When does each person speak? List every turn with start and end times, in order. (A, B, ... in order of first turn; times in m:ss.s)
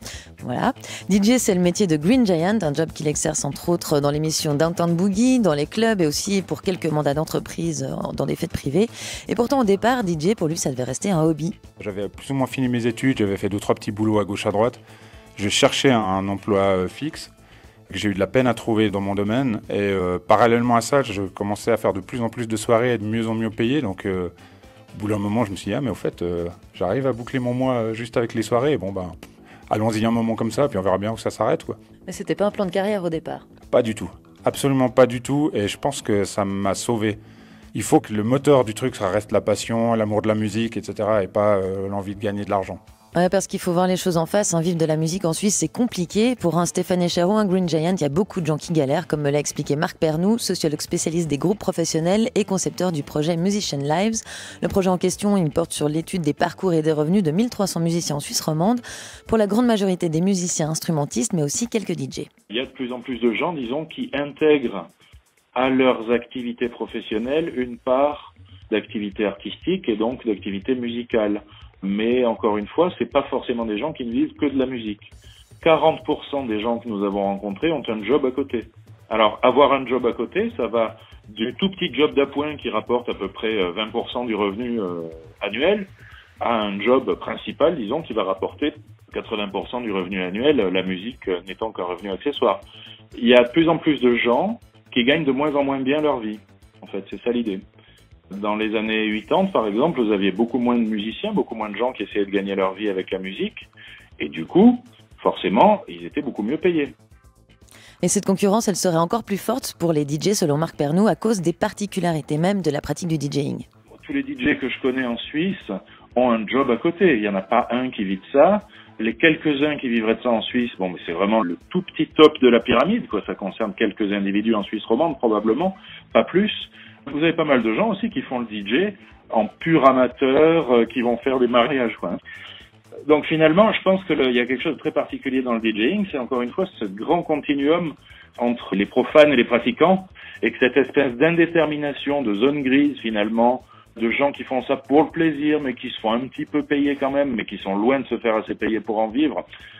0:00.4-0:11.5 A
0:11.8-0:14.8 B
0:15.4-0:17.3 B
0:17.9-0:24.3 B
0:24.9-0:29.2 B
0:29.7-0:31.8 B
0:32.1-0:33.4 A
0:33.7-0:37.2 B
0:37.7-0:42.8 B
0:43.1-1:02.3 A
1:02.5-1:04.9 C
1:05.5-1:32.6 C
1:33.1-1:37.6 C
1:38.3-1:46.9 C
1:48.0-1:53.6 A
1:54.0-2:12.2 C
2:13.0-2:29.4 C